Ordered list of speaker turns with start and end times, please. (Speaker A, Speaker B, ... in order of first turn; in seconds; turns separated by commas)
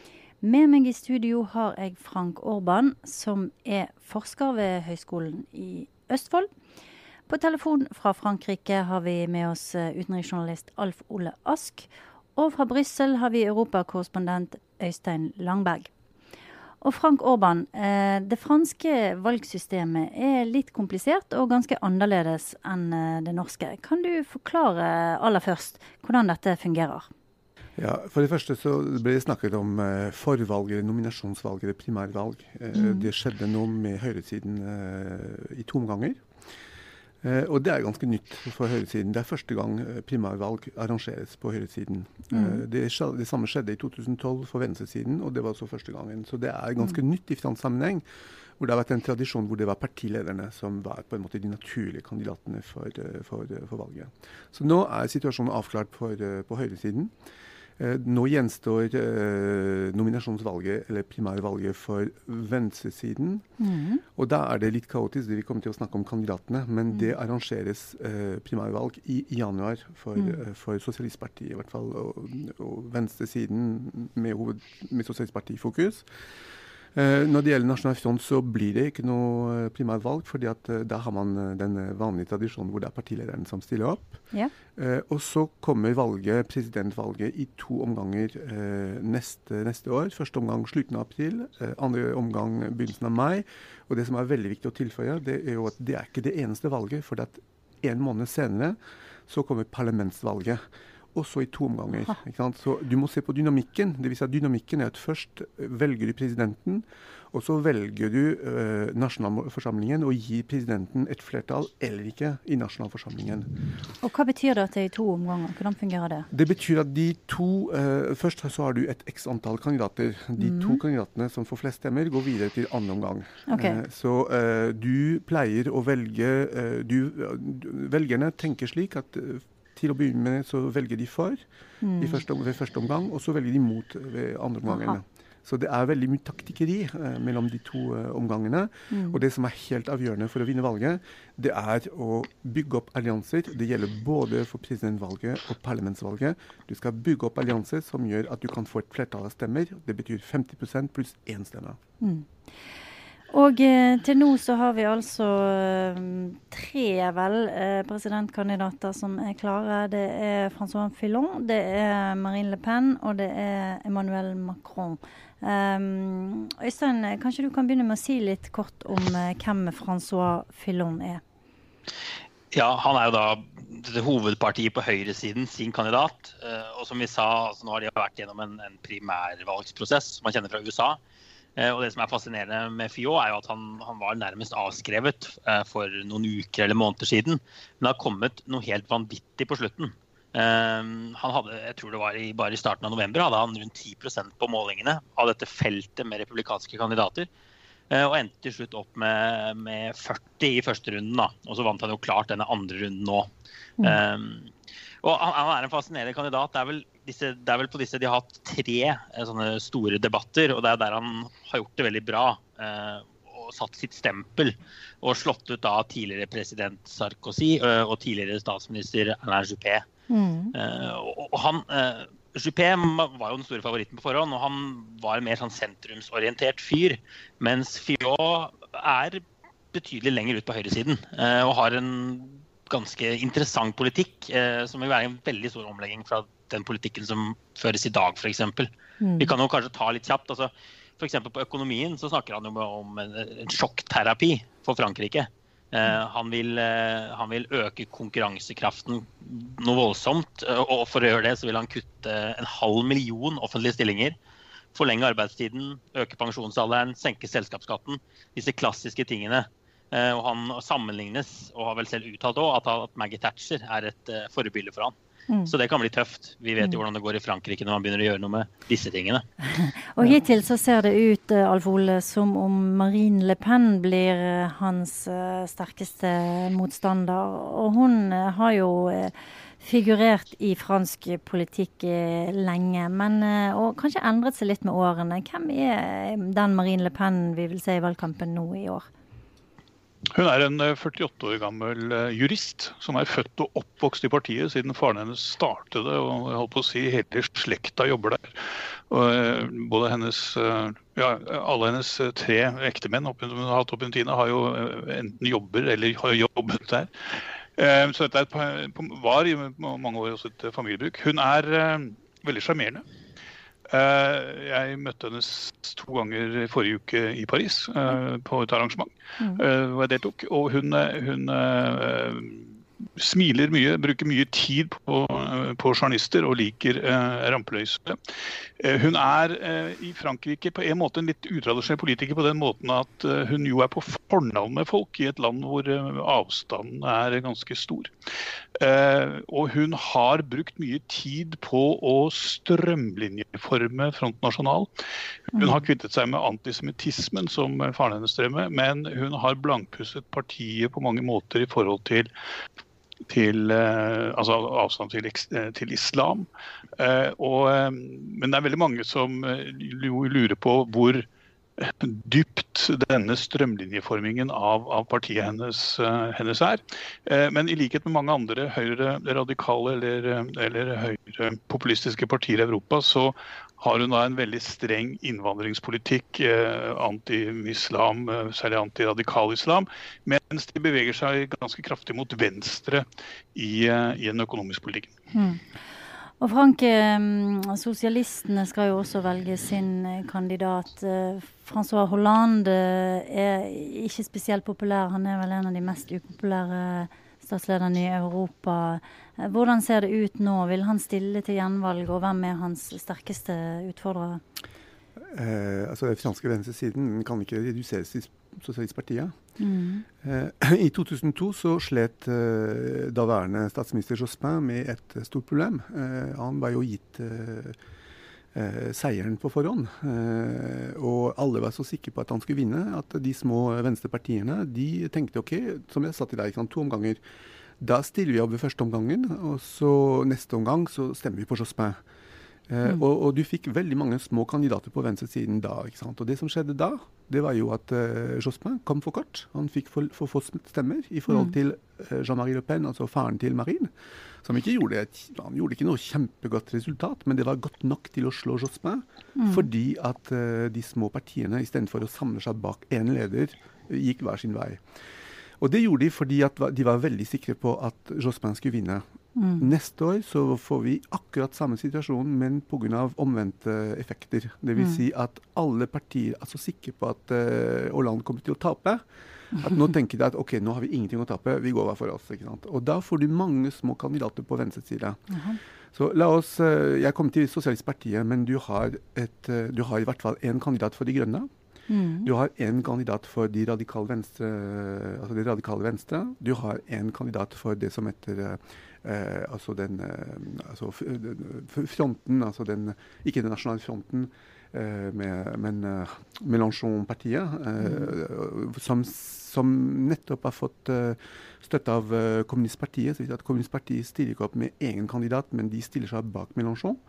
Speaker A: 0.4-6.5, Speaker A: 7.3-15.9, Speaker A: 16.8-27.1, Speaker B: 27.8-36.2, Speaker A: 32.7-33.1, Speaker B: 37.2-48.0, Speaker A: 42.3-42.6, Speaker B: 48.6-57.1, Speaker B: 57.8-63.5, Speaker A: 63.6-64.0, Speaker B: 64.2-76.1, Speaker B: 76.9-98.8, Speaker B: 99.3-100.6, Speaker B: 101.1-113.5, Speaker A: 114.0-116.3, Speaker B: 116.3-131.4, Speaker A: 120.4-120.8, Speaker A: 123.5-123.8, Speaker A: 131.8-132.2, Speaker B: 132.0-151.8, Speaker A: 134.7-135.0, Speaker A: 138.9-139.2, Speaker A: 152.0-152.3, Speaker A: 153.3-171.2, Speaker C: 172.5-181.0, Speaker C: 181.6-197.3, Speaker C: 197.9-203.3, Speaker C: 203.8-204.5, Speaker C: 205.0-219.9, Speaker A: 220.1-220.5, Speaker C: 220.5-254.2, Speaker A: 239.0-239.3, Speaker C: 254.7-264.9, Speaker C: 265.5-269.2, Speaker A: 269.4-288.9, Speaker D: 290.1-312.8, Speaker D: 313.7-337.9, Speaker D: 338.6-344.7, Speaker D: 345.3-352.1, Speaker A: 345.4-345.6, Speaker D: 353.1-361.1, Speaker D: 361.6-384.9, Speaker A: 385.1-385.4, Speaker A: 386.2-404.2, Speaker B: 405.1-409.1, Speaker A: 409.4-409.9, Speaker B: 410.0-417.6, Speaker B: 418.3-427.0, Speaker B: 427.6-431.8, Speaker B: 432.5-454.6, Speaker A: 449.2-449.5, Speaker B: 455.4-458.8, Speaker A: 459.2-459.5, Speaker B: 459.4-475.0, Speaker A: 475.1-475.4, Speaker B: 475.7-481.3, Speaker A: 481.7-482.1, Speaker B: 482.0-506.8